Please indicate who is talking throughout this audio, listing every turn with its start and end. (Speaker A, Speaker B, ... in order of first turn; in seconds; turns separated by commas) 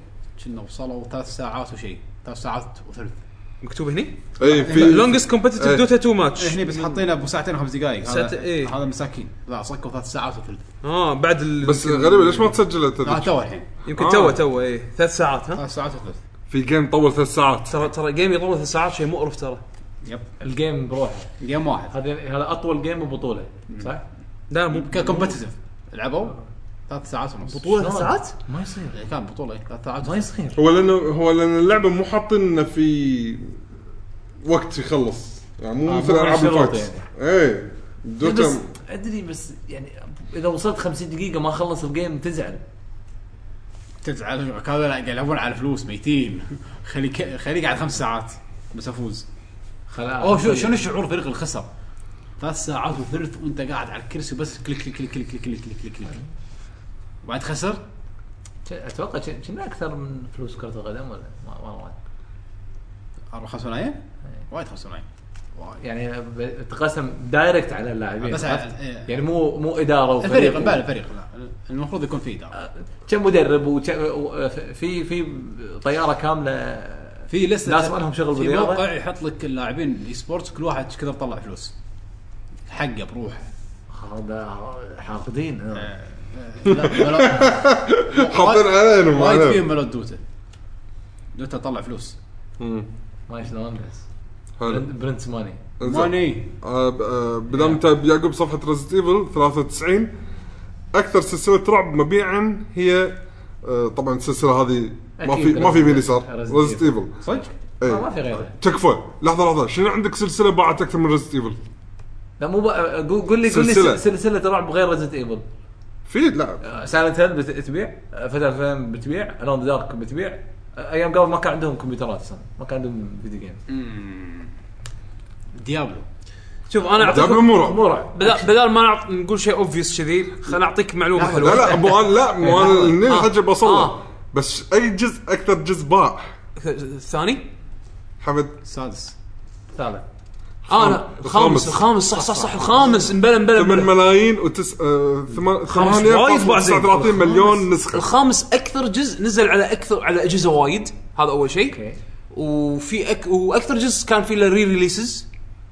Speaker A: 0.4-3.2, Speaker B: 3.6-7.0, Speaker C: 4.4-5.9, Speaker A: 4.4-5.2, Speaker A: 6.4-10.6, Speaker B: 8.0-8.7, Speaker B: 10.8-12.6, Speaker C: 11.6-13.3, Speaker A: 13.0-13.7, Speaker B: 13.8-15.6, Speaker C: 14.0-14.4, Speaker A: 15.6-16.2, Speaker C: 16.5-17.8, Speaker B: 17.7-19.6, Speaker D: 20.4-21.3, Speaker A: 21.4-21.9, Speaker D: 21.9-24.0, Speaker B: 24.5-25.4, Speaker A: 24.7-26.4, Speaker A: 26.9-27.7, Speaker B: 27.4-28.3, Speaker D: 27.7-29.0, Speaker A: 28.9-30.3, Speaker D: 30.0-30.6, Speaker C: 30.6-33.5, Speaker C: 34.4-38.6, Speaker D: 35.9-37.1, Speaker D: 38.2-42.6, Speaker A: 44.0-49.3, Speaker D: 49.9-50.8, Speaker A: 50.2-51.7, Speaker A: 52.4-56.1, Speaker A: 57.2-57.8, Speaker D: 58.7-62.0, Speaker A: 63.3-64.0, Speaker A: 64.5-65.0, Speaker D: 65.8-70.8, Speaker A: 68.2-69.1, Speaker A: 70.2-72.5, Speaker D: 72.5-78.9, Speaker A: 77.3-81.7, Speaker A: 82.7-83.5, Speaker D: 83.9-85.9, Speaker A: 85.8-90.2, Speaker C: 86.7-89.6, Speaker A: 91.3-92.2, Speaker C: 92.6-92.9, Speaker D: 93.3-94.0, Speaker C: 94.6-94.9, Speaker D: 94.7-95.6, Speaker C: 95.8-100.1, Speaker A: 95.8-96.5, Speaker D: 97.5-97.8, Speaker C: 100.9-107.2, Speaker D: 105.2-107.3, Speaker A: 107.2-107.5, Speaker C: 107.8-111.6, Speaker D: 107.8-108.6, Speaker D: 112.4-115.5, Speaker C: 113.5-114.0, Speaker C: 116.1-116.6, Speaker D: 116.6-123.6, Speaker A: 123.7-124.5, Speaker A: 125.6-126.0, Speaker B: 126.7-127.6, Speaker D: 127.0-128.4, Speaker C: 127.0-127.8, Speaker B: 128.1-132.0, Speaker A: 131.2-131.8, Speaker C: 131.4-136.3, Speaker D: 132.4-133.0, Speaker B: 132.9-134.0, Speaker B: 136.6-137.5, Speaker C: 138.2-138.6, Speaker A: 138.7-139.1, Speaker D: 139.8-140.1, Speaker C: 140.7-141.9, Speaker B: 140.7-143.9, Speaker A: 142.1-143.2, Speaker C: 143.5-148.1, Speaker B: 145.7-147.0, Speaker D: 147.2-147.5, Speaker B: 147.9-151.8, Speaker D: 151.7-152.0, Speaker B: 152.3-155.3